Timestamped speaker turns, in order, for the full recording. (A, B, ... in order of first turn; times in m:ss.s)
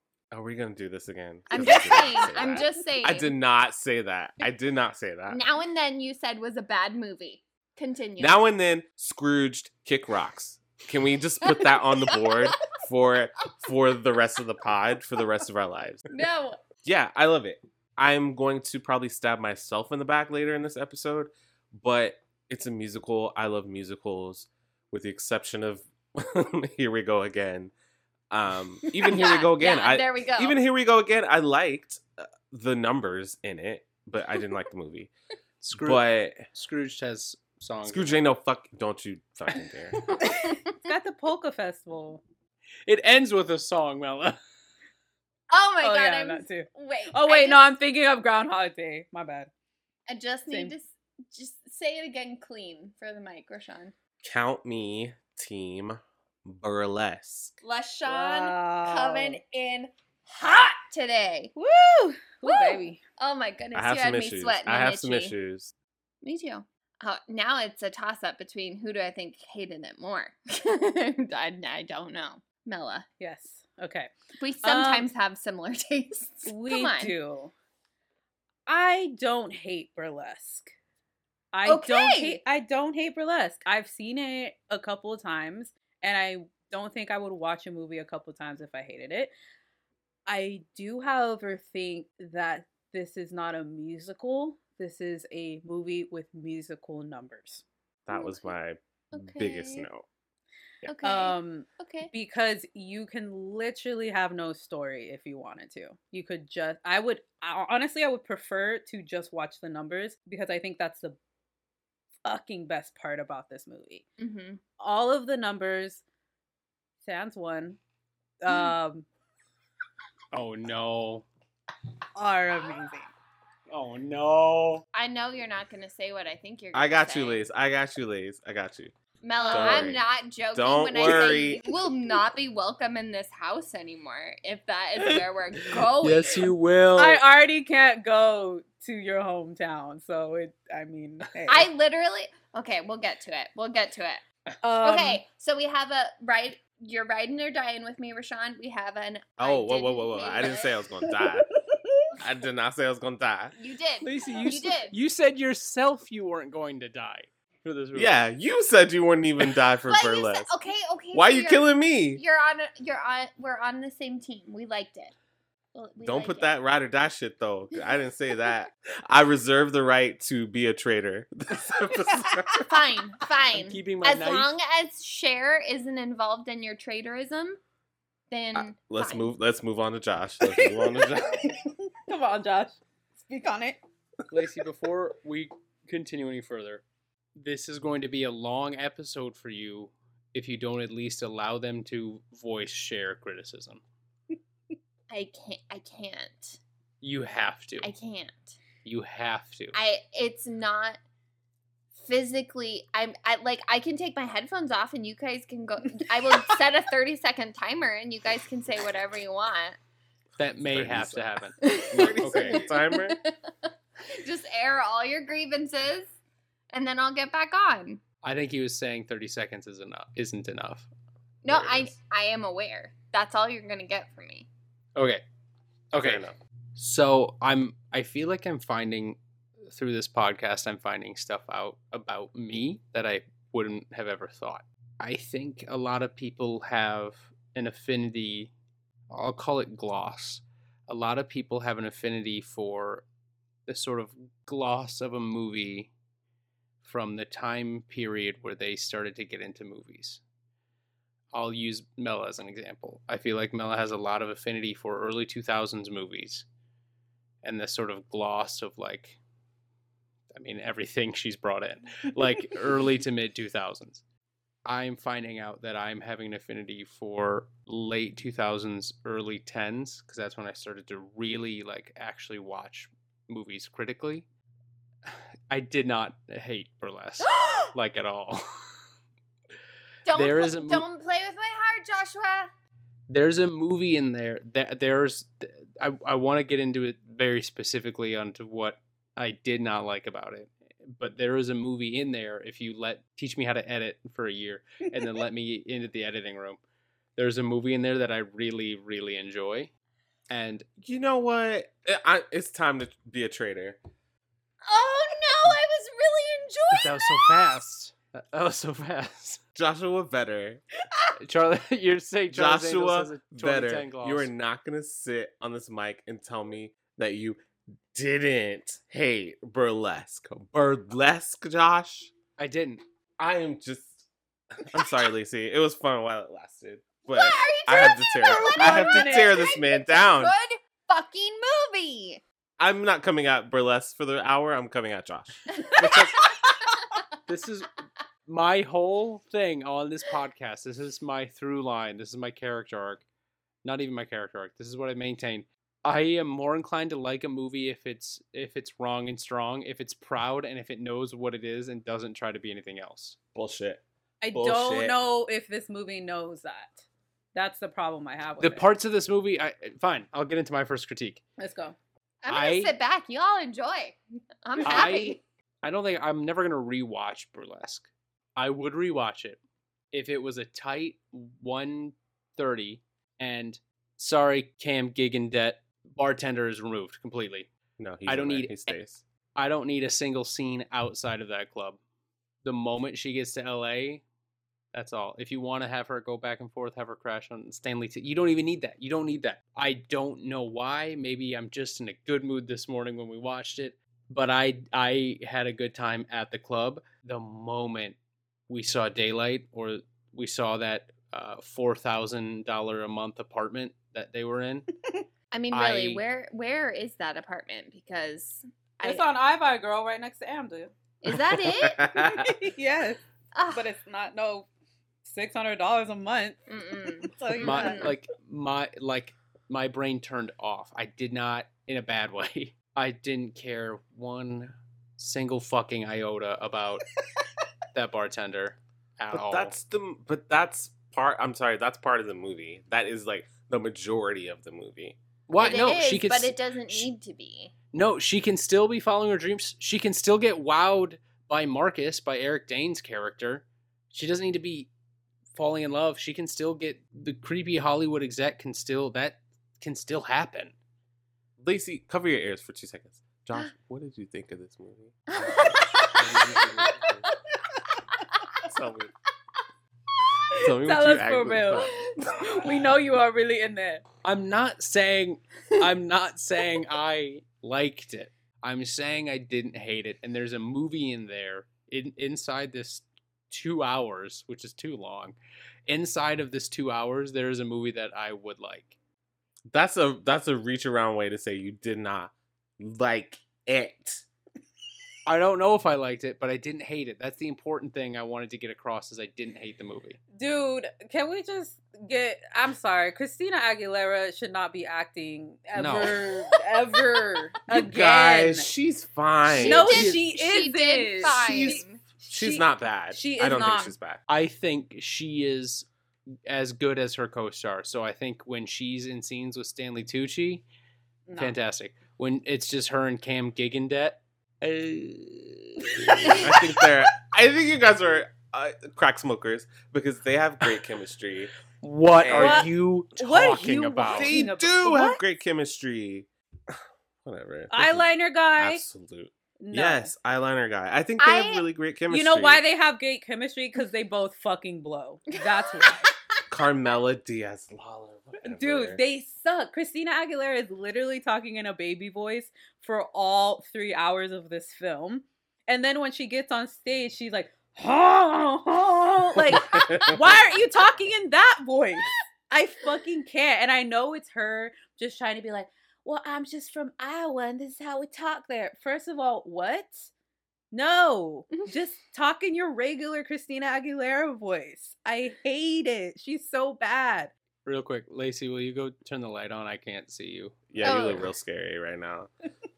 0:00.3-0:05.4 A
0:01.5-0:03.3 B
0:05.3-0:08.4 B
0:08.2-0:16.2 A
0:16.1-0:16.6 B
0:16.8-0:27.7 A
0:28.3-0:35.1 A
0:29.1-0:30.6 B
0:35.6-0:38.2 C
0:35.8-0:36.5 A
0:37.8-0:40.0 A
0:40.3-0:42.2 D
0:42.9-0:44.4 C
0:45.5-0:47.7 B
0:45.8-0:49.5 D
0:50.1-0:53.9 B
0:54.2-0:57.6 A
0:57.6-1:01.5 B
0:58.1-0:59.4 D
1:01.6-1:03.0 D
1:02.4-1:05.4 B
1:03.7-1:05.7 A
1:06.2-1:13.1 B
1:13.2-1:14.1 D
1:14.4-1:17.2 B
1:14.6-1:15.1 D
1:16.5-1:17.5 D
1:18.7-1:20.7 D
1:21.5-1:29.3 D
1:21.7-1:22.4 B
1:30.3-1:37.6 D
1:38.1-1:40.1 A
1:38.1-1:38.6 B
1:39.1-1:39.9 B
1:40.9-1:42.1 B
1:41.0-1:51.2 D
1:52.2-1:54.1 D
1:54.2-1:54.6 B
1:54.8-1:56.0 D
1:57.0-1:57.8 D
1:58.4-1:59.1 D
1:58.5-1:58.7 B
2:00.3-2:01.3 C
2:02.2-2:03.1 D
2:03.7-2:04.8 C
2:04.9-2:07.4 B
2:06.7-2:08.9 A
2:09.2-2:16.5 B
2:09.4-2:09.9 D
2:09.5-2:10.0 A
2:10.5-2:11.6 A
2:16.0-2:17.2 C
2:17.0-2:21.7 D
2:21.5-2:24.2 B
2:24.6-2:25.2 D
2:24.8-2:30.8 B
2:29.4-2:31.5 A
2:32.2-2:33.6 A
2:33.6-2:34.9 B
2:34.0-2:38.2 C
2:38.0-2:40.5 A
2:39.9-2:45.1 B
2:41.1-2:42.2 A
2:45.7-2:46.5 B
2:46.0-2:52.7 A
2:52.6-2:57.6 B
2:53.5-2:54.5 C
2:58.3-2:59.3 B
2:58.6-3:01.5 A
3:00.6-3:03.8 D
3:04.3-3:06.8 C
3:07.4-3:13.8 C
3:15.1-3:16.6 B
3:17.0-3:17.9 C
3:17.8-3:18.6 B
3:18.8-3:19.8 C
3:19.7-3:21.0 B
3:22.0-3:29.8 B
3:30.4-3:31.6 C
3:30.6-3:33.2 A
3:31.6-3:36.2 B
3:32.2-3:32.5 C
3:36.7-3:38.0 B
3:38.2-3:40.9 C
3:41.4-3:44.5 B
3:41.5-3:41.9 C
3:45.0-3:45.2 C
3:45.9-3:46.2 C
3:46.0-3:46.4 A
3:46.8-3:49.2 C
3:49.7-3:58.5 C
3:59.1-4:03.0 C
4:03.7-4:05.9 C
4:06.8-4:10.2 C
4:11.3-4:16.5 C
4:17.4-4:19.2 C
4:20.3-4:24.0 C
4:24.6-4:34.3 C
4:35.1-4:38.7 C
4:40.0-4:42.5 B
4:40.2-4:40.9 C
4:43.1-4:56.6 C
4:57.2-4:59.7 C
5:00.3-5:00.7 C
5:00.8-5:03.8 A
5:04.7-5:07.4 B
5:06.7-5:09.4 C
5:09.6-5:10.6 A
5:11.2-5:14.3 C
5:12.3-5:17.4 A
5:17.9-5:22.1 A
5:22.4-5:22.8 C
5:23.2-5:30.4 A
5:27.1-5:32.2 B
5:28.2-5:29.5 D
5:32.6-5:36.3 A
5:37.3-5:37.7 C
5:38.3-5:43.0 C
5:43.6-5:53.2 C
5:53.4-5:55.0 A
5:54.2-5:58.7 D
5:58.4-6:01.2 C
6:01.4-6:01.8 D
6:02.2-6:05.2 B
6:02.3-6:02.7 C
6:04.6-6:09.4 C
6:09.9-6:17.5 C
6:17.8-6:19.0 A
6:18.1-6:18.8 C
6:19.4-6:21.8 C
6:22.4-6:24.0 C
6:24.7-6:38.0 C
6:38.5-6:44.7 C
6:45.3-6:49.0 B
6:45.5-6:46.0 C
6:48.8-6:50.7 D
6:51.0-6:51.9 B
6:51.6-6:52.3 A
6:51.9-6:54.5 D
6:53.3-6:53.7 B
6:55.0-6:56.4 D
6:56.5-6:58.0 B
6:57.2-6:57.9 D
6:57.4-7:06.9 C
7:07.7-7:09.5 C
7:09.1-7:15.0 A
7:15.3-7:16.9 C
7:15.4-7:17.5 B
7:17.7-7:24.7 C
7:25.3-7:30.6 C
7:31.4-7:37.0 A
7:35.1-7:36.2 B
7:38.4-7:38.9 A
7:40.3-7:41.9 A
7:40.4-7:43.8 D
7:44.0-7:55.2 C
7:55.7-7:58.8 C
7:59.5-8:04.0 A
8:05.1-8:10.0 C
8:10.2-8:18.5 D
8:15.6-8:16.0 C
8:17.5-8:19.9 A
8:19.3-8:21.8 B
8:19.4-8:23.8 D
8:19.7-8:20.0 C
8:22.1-8:24.0 A
8:24.1-8:25.7 C
8:26.3-8:30.4 C
8:31.1-8:31.4 D
8:31.2-8:36.5 C
8:36.2-8:41.3 A
8:41.6-8:44.1 C
8:42.0-8:42.5 A
8:42.1-8:45.0 D
8:43.8-8:52.4 A
8:47.5-8:48.6 D
8:49.4-8:49.9 D
8:51.0-8:51.4 B
8:51.9-8:55.9 D
8:55.6-8:55.9 B
8:56.3-8:58.8 A
8:58.2-9:19.9 D
9:09.3-9:10.0 A
9:20.5-9:27.1 D
9:27.5-9:30.8 C
9:30.5-9:32.1 A
9:30.6-9:31.1 B